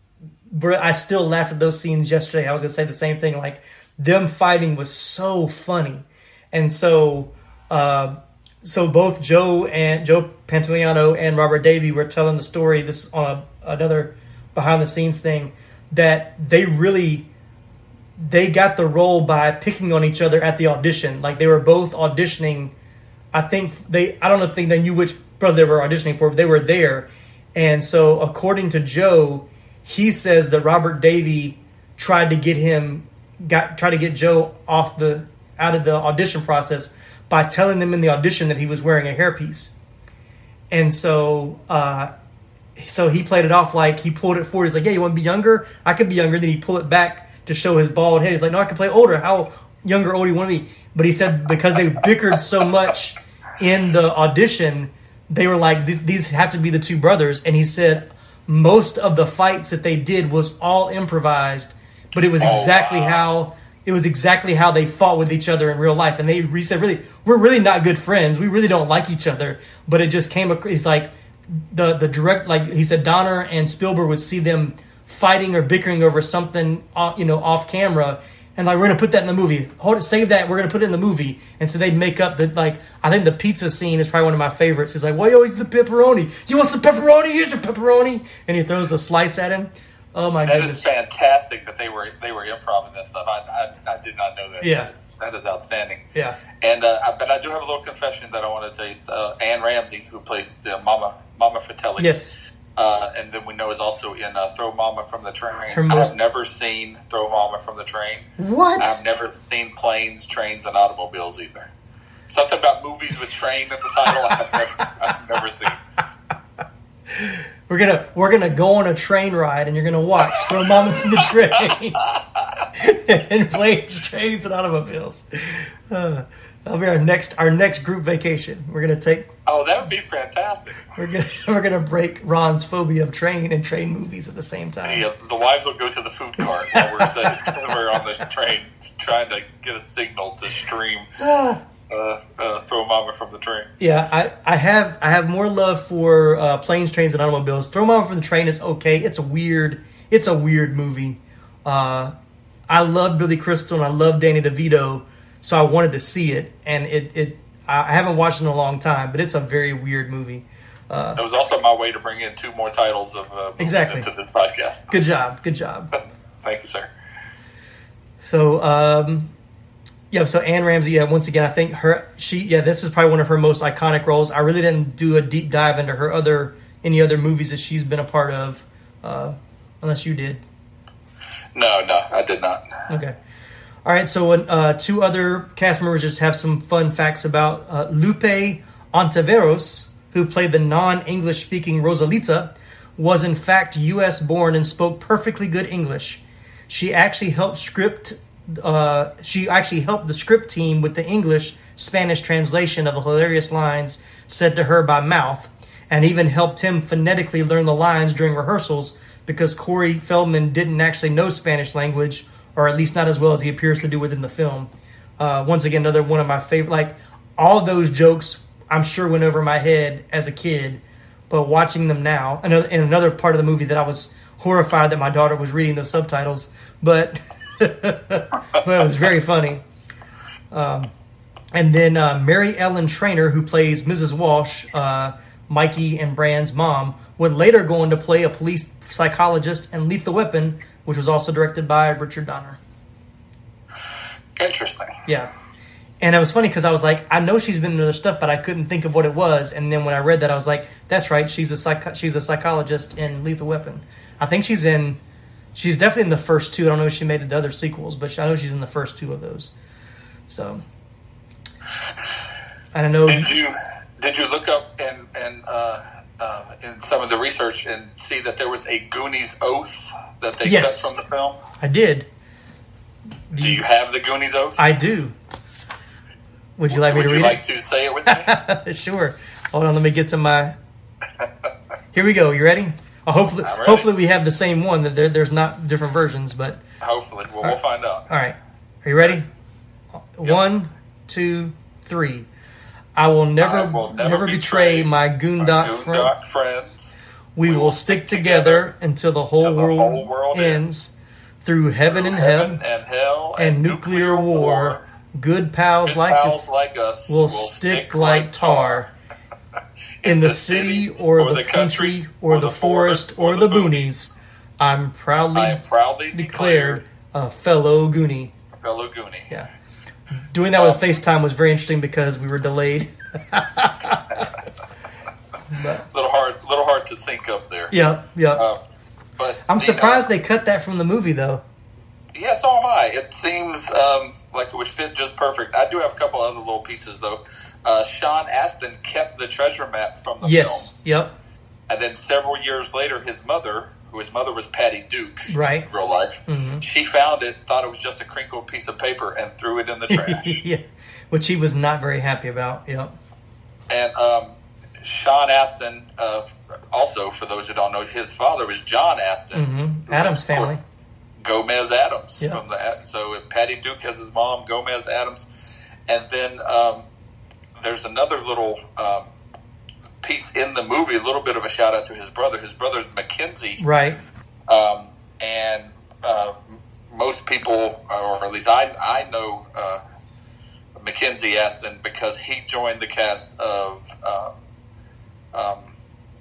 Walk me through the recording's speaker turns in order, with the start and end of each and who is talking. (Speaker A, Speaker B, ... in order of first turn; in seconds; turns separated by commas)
Speaker A: 0.5-17.3, Speaker A: 18.2-22.7, Speaker A: 23.3-39.8, Speaker A: 40.7-42.1, Speaker A: 42.8-90.9, Speaker B: 62.4-63.2, Speaker B: 90.5-96.0, Speaker A: 94.6-94.9, Speaker A: 96.2-96.4, Speaker B: 96.6-102.1, Speaker A: 102.0-102.4, Speaker B: 102.8-111.7, Speaker A: 105.7-106.1, Speaker A: 108.4-109.0, Speaker B: 112.3-115.8, Speaker A: 114.3-114.6, Speaker A: 117.1-122.0, Speaker B: 121.2-122.7, Speaker A: 122.8-129.3, Speaker B: 129.5-130.9, Speaker A: 131.0-135.1, Speaker B: 134.8-141.1, Speaker A: 136.7-137.8, Speaker A: 141.2-141.6, Speaker B: 141.9-143.7, Speaker A: 143.8-152.1, Speaker A: 152.7-161.2, Speaker B: 161.2-164.9, Speaker A: 163.6-164.1, Speaker A: 164.9-165.9, Speaker B: 166.4-166.9, Speaker A: 168.2-169.3, Speaker A: 170.1-180.4, Speaker B: 181.6-182.7, Speaker A: 182.9-183.2, Speaker A: 183.8-229.6, Speaker A: 230.5-230.9, Speaker A: 231.5-242.6, Speaker B: 244.4-244.9, Speaker A: 245.1-245.3, Speaker A: 246.0-255.0, Speaker A: 255.6-259.5, Speaker A: 260.3-260.6, Speaker A: 262.7-263.3, Speaker B: 263.1-271.4, Speaker A: 270.4-270.9, Speaker A: 271.6-272.1, Speaker A: 273.3-273.6, Speaker B: 273.3-274.7, Speaker A: 274.6-275.2, Speaker A: 276.6-277.4, Speaker B: 276.7-278.3, Speaker A: 278.1-280.6, Speaker B: 281.2-281.5, Speaker A: 281.9-286.6, Speaker B: 283.4-283.9, Speaker B: 286.8-288.1, Speaker A: 288.1-289.3, Speaker A: 290.2-292.3, Speaker A: 293.0-296.1, Speaker B: 293.4-298.7, Speaker A: 297.4-302.6, Speaker B: 299.4-300.6, Speaker B: 301.9-304.8, Speaker A: 303.4-306.5, Speaker B: 305.9-308.9, Speaker A: 307.1-308.9, Speaker B: 310.0-313.9, Speaker A: 310.0-315.6, Speaker B: 315.4-316.8, Speaker A: 316.1-318.3, Speaker B: 318.5-319.3, Speaker A: 320.3-324.3, Speaker B: 320.6-320.8, Speaker A: 325.5-325.9, Speaker B: 325.9-327.7, Speaker A: 327.7-328.5, Speaker B: 329.2-330.1, Speaker A: 329.5-331.4, Speaker B: 332.1-340.7, Speaker A: 340.2-341.1, Speaker B: 341.7-350.4, Speaker A: 345.3-345.7, Speaker A: 346.3-346.6, Speaker A: 349.9-352.9, Speaker B: 353.7-360.5, Speaker A: 359.3-360.6, Speaker B: 361.2-365.3, Speaker B: 365.9-366.9, Speaker B: 367.6-369.1, Speaker B: 370.0-373.6, Speaker A: 373.6-374.0, Speaker B: 374.5-379.8, Speaker B: 380.8-384.3, Speaker B: 385.3-385.8